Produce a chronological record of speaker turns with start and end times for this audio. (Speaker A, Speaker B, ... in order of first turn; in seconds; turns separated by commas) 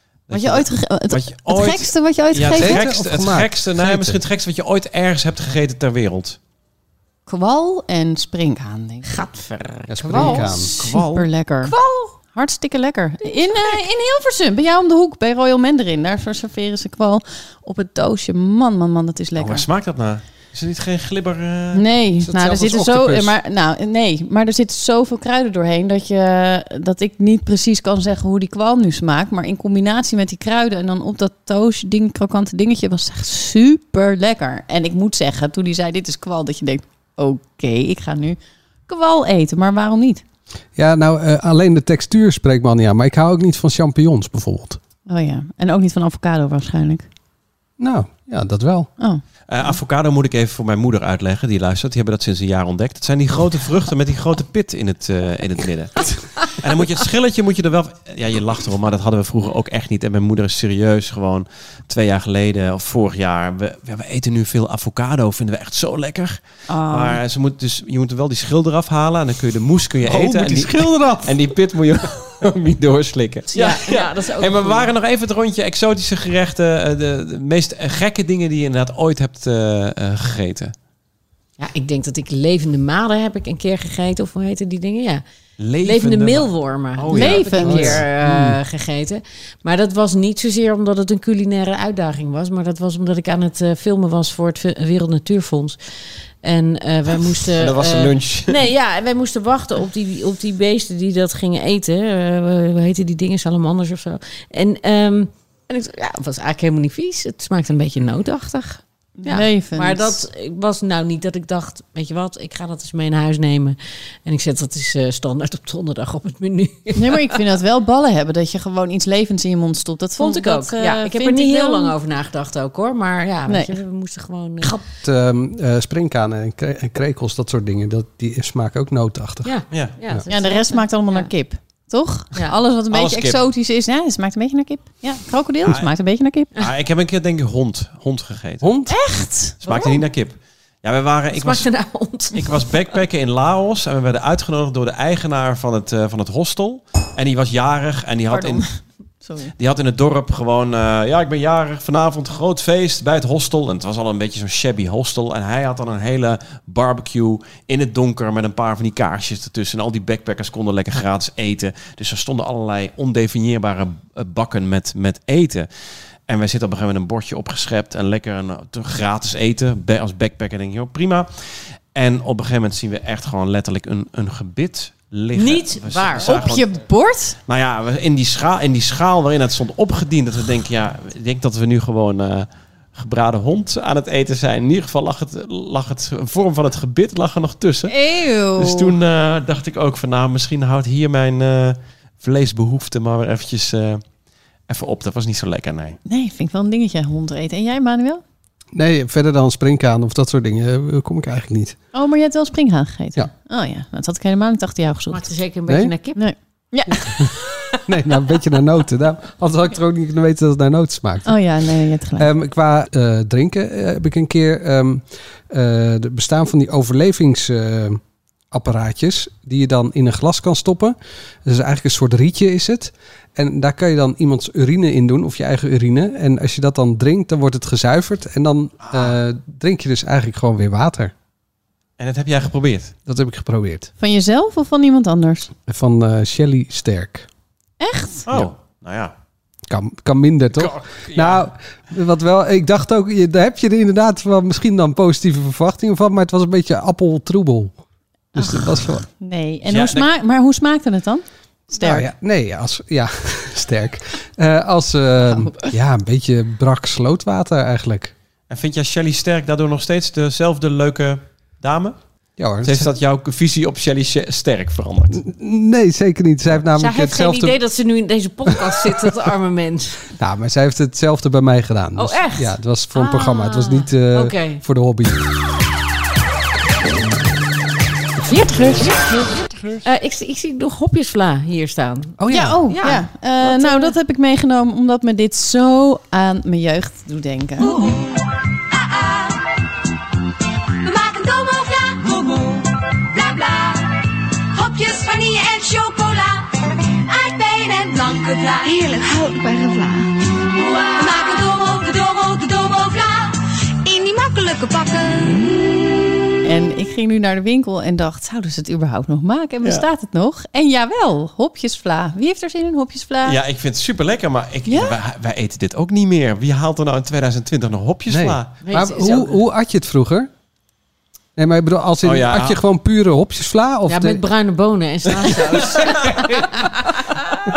Speaker A: 0.3-6.4, Speaker B: 0.3-2.8, Speaker C: 2.5-4.2, Speaker B: 7.3-9.1, Speaker D: 9.0-11.0, Speaker C: 9.9-10.7, Speaker B: 10.1-19.6, Speaker A: 10.8-11.3, Speaker D: 11.6-12.1, Speaker D: 13.2-13.8, Speaker A: 19.4-21.8, Speaker B: 21.7-40.2, Speaker C: 22.2-23.3, Speaker C: 40.8-44.8, Speaker B: 45.1-47.0, Speaker C: 47.8-48.9, Speaker B: 49.0-49.8, Speaker A: 49.5-80.7, Speaker B: 66.7-67.2, Speaker C: 70.0-71.5, Speaker D: 73.5-74.9, Speaker D: 81.6-85.2, Speaker A: 85.6-88.0, Speaker D: 85.8-95.8, Speaker B: 87.1-87.9, Speaker C: 87.2-88.6, Speaker D: 96.4-117.3, Speaker A: 97.6-98.6, Speaker B: 109.2-110.2, Speaker B: 116.9-121.9, Speaker D: 120.2-124.8, Speaker B: 123.5-123.8, Speaker C: 124.7-129.5, Speaker D: 129.4-131.3, Speaker B: 130.3-136.5, Speaker A: 132.9-133.4, Speaker A: 135.6-135.9, Speaker A: 136.5-138.7, Speaker C: 138.6-139.0, Speaker B: 138.9-139.9, Speaker A: 139.6-141.7, Speaker D: 139.7-139.9, Speaker D: 141.3-142.8, Speaker A: 142.3-148.6, Speaker B: 148.3-149.5, Speaker A: 149.6-165.7, Speaker A: 166.3-171.3, Speaker A: 171.9-176.7, Speaker D: 175.3-176.6, Speaker B: 176.2-177.4, Speaker A: 177.5-187.9, Speaker B: 187.9-188.9, Speaker A: 188.5-194.0, Speaker A: 194.7-196.0, Speaker B: 196.1-198.2, Speaker C: 198.7-201.8, Speaker B: 201.9-205.3, Speaker D: 205.1-206.2, Speaker C: 205.7-205.9, Speaker B: 206.2-207.3, Speaker C: 207.8-211.4, Speaker B: 211.2-212.3, Speaker C: 212.2-231.1, Speaker A: 228.9-229.2, Speaker A: 232.0-232.9, Speaker C: 233.1-233.9, Speaker B: 234.0-235.5, Speaker C: 235.7-237.3, Speaker B: 237.8-238.3, Speaker A: 238.3-239.1, Speaker C: 239.7-247.7, Speaker A: 240.5-241.4, Speaker C: 248.3-249.0, Speaker B: 248.3-252.1, Speaker A: 249.7-250.1, Speaker C: 251.7-258.1, Speaker A: 258.5-262.0, Speaker C: 262.4-262.9, Speaker A: 262.6-265.2, Speaker C: 265.1-267.6, Speaker D: 266.8-270.0, Speaker C: 268.5-269.0, Speaker C: 270.2-275.3, Speaker D: 271.9-274.6, Speaker D: 278.2-279.3, Speaker D: 279.8-283.9, Speaker C: 282.2-282.7, Speaker B: 282.3-287.7, Speaker E: 287.6-289.5, Speaker E: 290.8-305.8, Speaker B: 306.4-313.4, Speaker A: 313.2-318.6, Speaker B: 314.6-314.9, Speaker C: 318.1-320.3, Speaker D: 318.6-319.4, Speaker C: 321.4-324.2, Speaker A: 322.0-322.6, Speaker D: 323.9-327.2